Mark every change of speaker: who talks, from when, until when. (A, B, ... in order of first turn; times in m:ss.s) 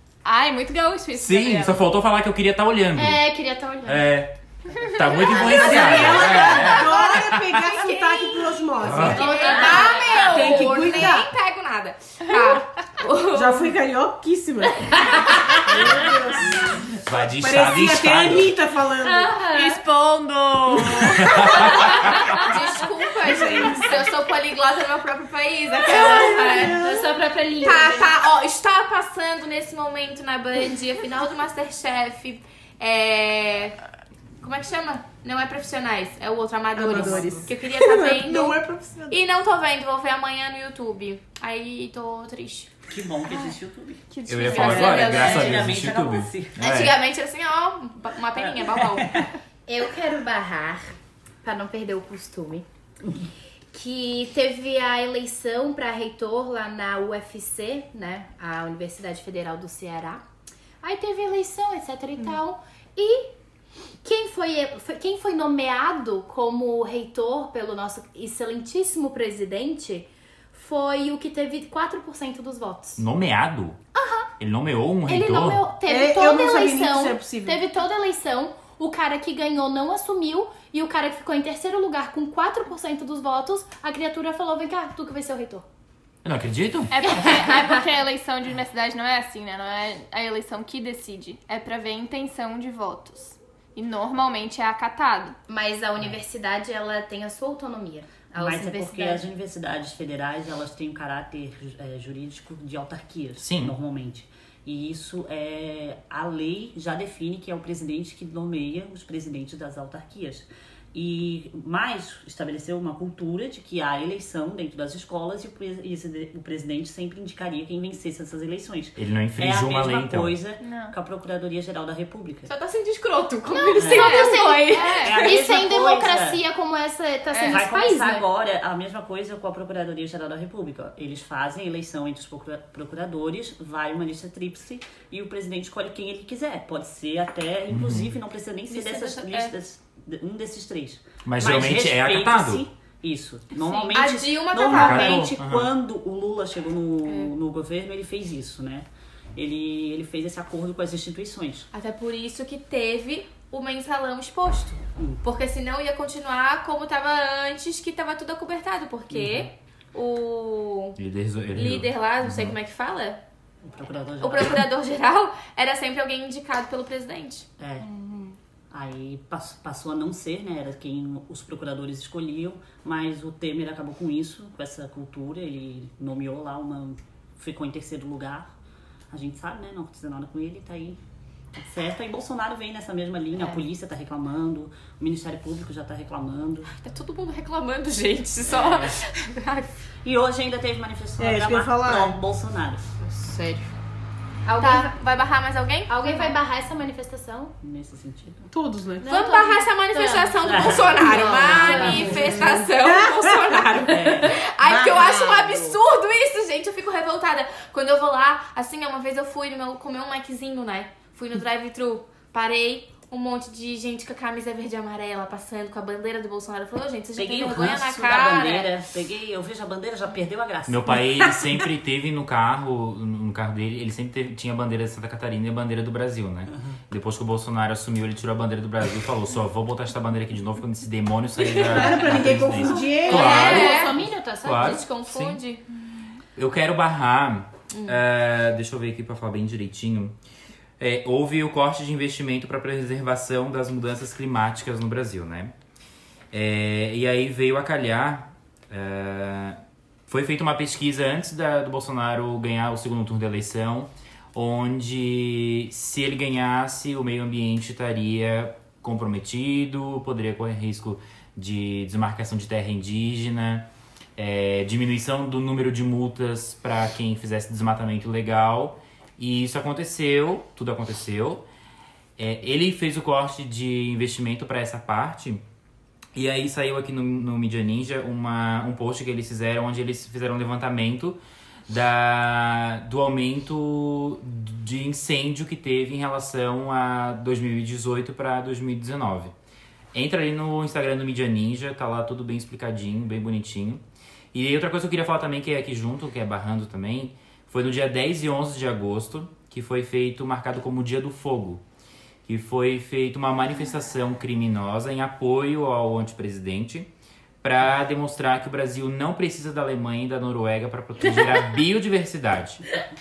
0:00.2-0:01.9 A
0:01.1-0:03.3 B
0:03.0-0:04.1 C
0:03.8-0:07.5 B
0:05.1-0:06.6 C
0:05.3-0:09.6 D
0:06.2-0:07.1 E
0:07.8-0:13.7 E
0:08.8-0:09.4 B
0:09.0-0:11.2 C
0:10.1-0:11.3 D
0:13.3-0:19.4 D
0:15.0-0:15.8 E
0:17.0-0:18.5 B
0:19.0-0:19.8 C
0:19.5-0:26.8 E
0:21.2-0:22.4 B
0:21.3-0:21.8 D
0:23.2-0:24.1 D
0:25.8-0:27.2 D
0:25.9-0:28.2 C
0:27.6-0:33.8 E
0:34.4-0:42.7 E
0:36.8-0:39.2 D
0:42.9-0:46.6 F
0:44.1-0:45.4 A
0:44.3-0:47.0 B
0:44.5-0:45.7 E
0:46.6-0:49.2 E
0:48.4-0:49.3 F
0:49.7-0:52.7 C
0:53.7-1:00.2 C
1:00.8-1:03.3 C
1:04.0-1:13.0 C
1:13.0-1:13.8 B
1:13.9-1:14.3 C
1:14.4-1:15.7 B
1:15.0-1:25.7 C
1:15.9-1:17.6 D
1:26.2-1:27.0 B
1:26.9-1:35.4 A
1:27.1-1:27.9 C
1:35.5-1:39.3 C
1:38.3-2:02.5 F
1:43.4-1:43.7 B
1:59.0-2:00.4 B
2:00.6-2:00.9 A
2:02.5-2:05.3 E
2:03.4-2:08.3 C
2:03.8-2:04.2 F
2:04.0-2:05.1 A
2:05.0-2:06.4 F
2:07.4-2:31.7 F
2:17.7-2:18.1 B
2:18.7-2:19.5 E
2:21.2-2:22.6 B
2:23.9-2:25.3 E
2:24.7-2:25.7 B
2:31.7-2:41.0 E
2:35.0-2:35.2 F
2:39.1-2:39.5 F
2:41.0-2:42.6 B
2:41.5-2:43.2 E
2:43.6-2:44.7 F
2:44.2-2:47.5 E
2:47.6-2:47.9 F
2:47.8-2:48.4 C
2:48.7-2:58.5 F
2:59.1-3:01.0 F
3:01.6-3:06.8 F
3:06.7-3:09.7 E
3:08.5-3:09.0 F
3:10.0-3:12.9 F
3:11.2-3:12.2 D
3:13.0-3:13.7 E
3:14.4-3:14.9 C
3:14.6-3:16.4 E
3:15.9-3:17.6 C
3:17.6-3:18.5 F
3:18.5-3:19.1 D
3:19.0-3:22.6 C
3:19.1-3:38.7 E
3:20.4-3:22.4 F
3:22.3-3:23.8 D
3:23.9-3:24.4 F
3:24.7-3:25.7 C
3:37.2-3:41.6 F
3:40.7-3:55.4 B
3:46.5-3:46.8 F
3:51.6-3:53.4 D
3:52.6-3:54.8 C
3:53.1-3:55.6 E
3:56.4-4:00.2 B
3:57.7-3:58.0 E
4:00.8-4:05.5 B
4:06.3-4:31.5 B
4:32.2-4:35.4 B
4:36.2-4:49.3 B
4:49.9-4:53.8 B
4:54.3-5:01.6 B
5:02.3-5:06.9 B
5:07.4-5:12.7 B